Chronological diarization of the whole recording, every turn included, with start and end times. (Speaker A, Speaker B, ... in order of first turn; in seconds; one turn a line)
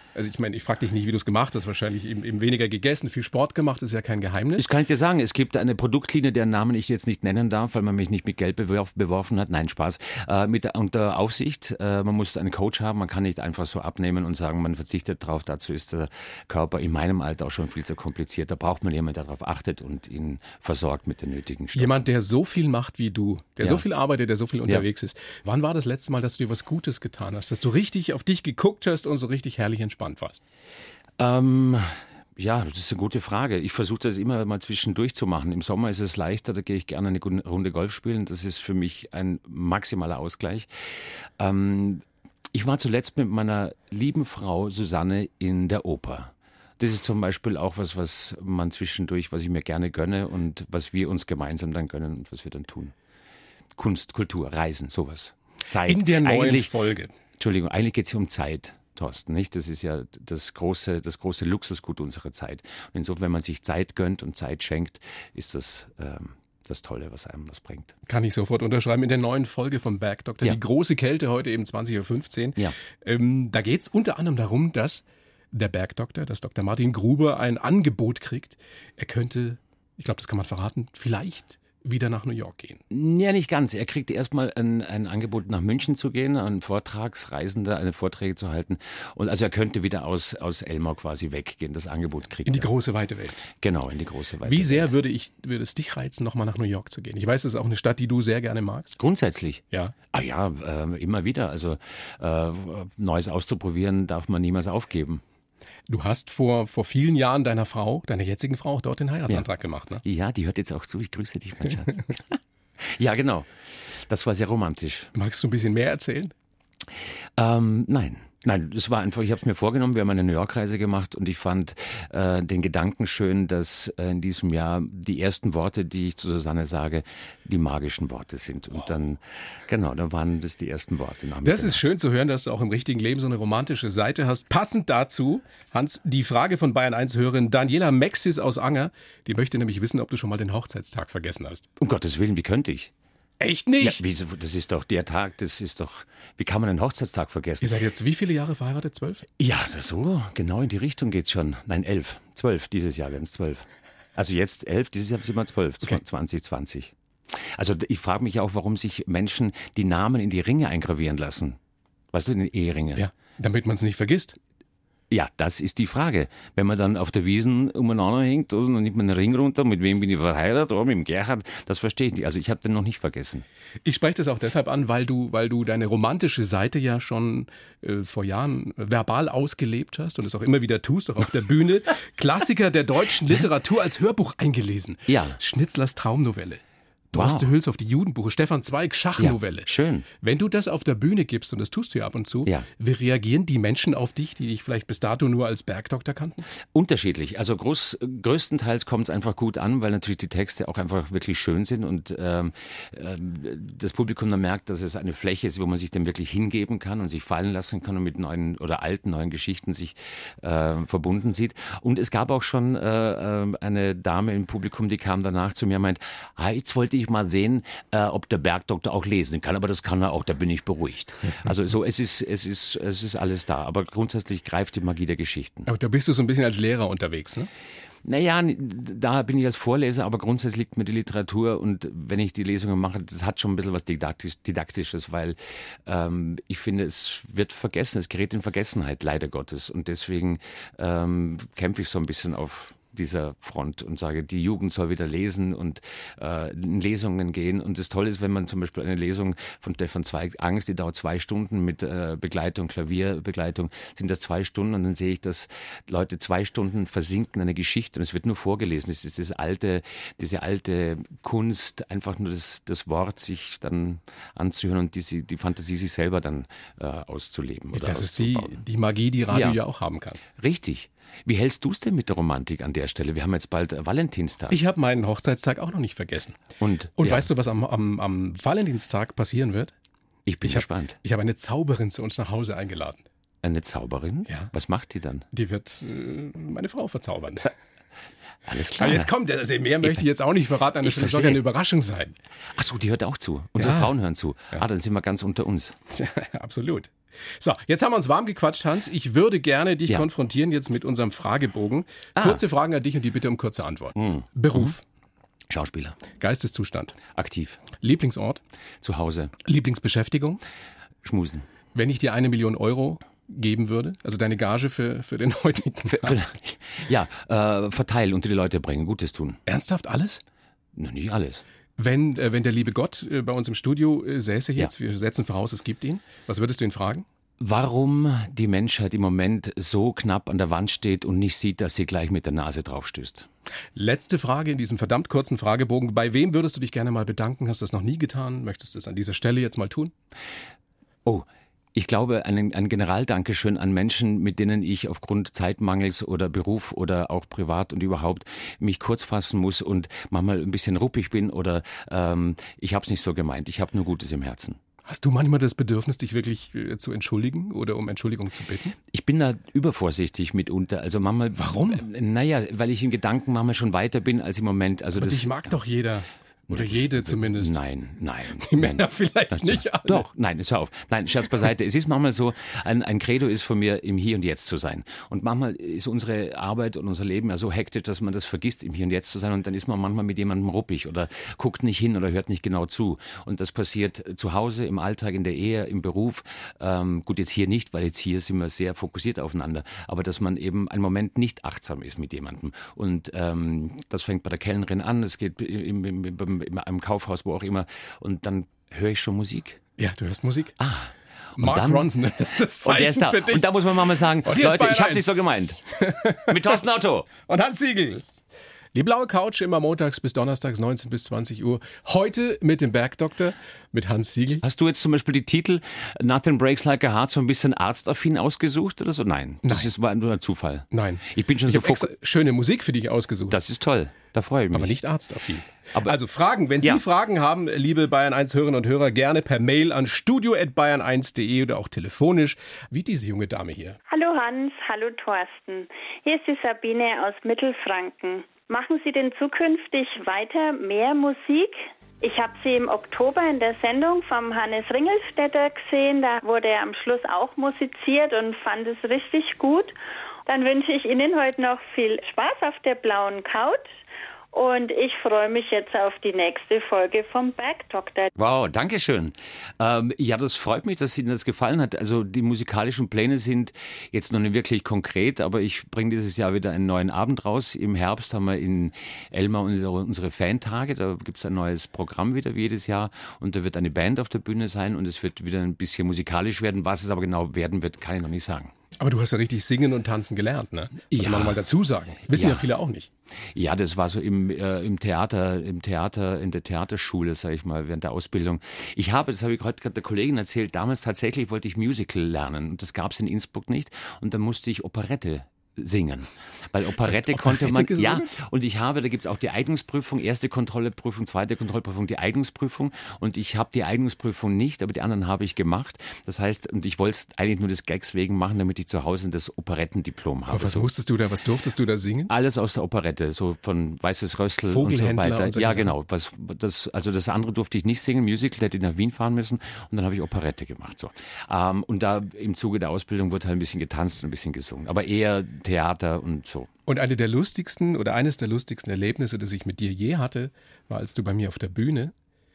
Speaker A: 0.1-4.7
Speaker B: 4.6-22.0
Speaker A: 21.7-30.4
Speaker B: 31.2-40.7
Speaker B: 41.4-52.9
Speaker B: 53.8-56.7
Speaker A: 55.9-57.1
Speaker B: 57.4-67.9
Speaker A: 68.1-82.8
Speaker B: 82.9-92.7
Speaker A: 92.5-93.5
Speaker B: 93.6-94.9
Speaker A: 94.5-99.0
Speaker B: 99.0-105.2
Speaker A: 105.9-110.0
Speaker B: 110.0-115.1
Speaker A: 115.1-116.3
Speaker B: 117.4-131.8
Speaker A: 131.4-141.7
Speaker B: 141.8-142.9
Speaker A: 143.4-144.0
Speaker B: 143.8-147.7
Speaker A: 147.6-149.3
Speaker B: 149.4-156.9
Speaker B: 157.6-161.6
Speaker B: 162.1-163.0
Speaker A: 163.0-164.4
Speaker B: 165.1-173.4
Speaker A: 173.8-196.5
Speaker B: 185.1-185.4
Speaker B: 187.2-187.5
Speaker B: 189.2-190.1
Speaker B: 196.7-225.7
Speaker A: 225.7-227.5
Speaker B: 228.1-268.6
Speaker A: 267.7-270.2
Speaker B: 269.3-269.6
Speaker B: 270.4-274.6
Speaker A: 274.5-276.4
Speaker B: 276.6-277.3
Speaker A: 277.0-279.7
Speaker B: 280.3-281.0
Speaker A: 280.4-283.0
Speaker B: 283.4-285.2
Speaker A: 285.3-287.5
Speaker B: 288.5-289.1
Speaker A: 288.8-292.2
Speaker B: 290.8-291.4
Speaker B: 292.5-295.8
Speaker A: 293.6-293.9
Speaker A: 295.9-304.8
Speaker B: 304.0-304.7
Speaker B: 305.5-306.0
Speaker A: 306.1-307.0
Speaker B: 307.1-307.6
Speaker A: 307.8-308.4
Speaker B: 308.8-309.3
Speaker A: 309.4-310.4
Speaker B: 311.0-311.4
Speaker A: 311.7-316.2
Speaker B: 315.9-319.4
Speaker A: 319.5-320.2
Speaker B: 320.8-321.4
Speaker A: 321.8-327.1
Speaker B: 327.4-333.3
Speaker A: 333.8-339.9
Speaker B: 341.1-354.6
Speaker A: 354.9-358.8
Speaker B: 358.9-365.4
Speaker A: 361.4-361.9
Speaker A: 364.9-367.6
Speaker B: 366.5-399.6
Speaker A: 368.4-370.1
Speaker A: 399.8-400.6
Speaker B: 400.6-401.9
Speaker A: 401.4-403.5
Speaker B: 402.6-405.6
Speaker A: 404.2-406.6
Speaker B: 406.2-407.1
Speaker A: 407.3-408.1
Speaker A: 408.7-414.4
Speaker B: 414.4-421.9
Speaker A: 419.4-419.7
Speaker A: 420.7-423.4
Speaker B: 423.3-424.8
Speaker A: 424.5-433.8
Speaker C: 433.9-449.7
Speaker C: 450.3-453.7
Speaker C: 454.3-458.1
Speaker B: 458.2-478.5
Speaker A: 478.8-482.9
Speaker B: 480.9-481.4
Speaker B: 482.1-482.4
Speaker B: 483.3-510.7
Speaker A: 496.8-498.1
Speaker A: 510.3-512.1
Speaker B: 512.1-526.5
Speaker A: 514.5-515.7
Speaker A: 526.7-531.9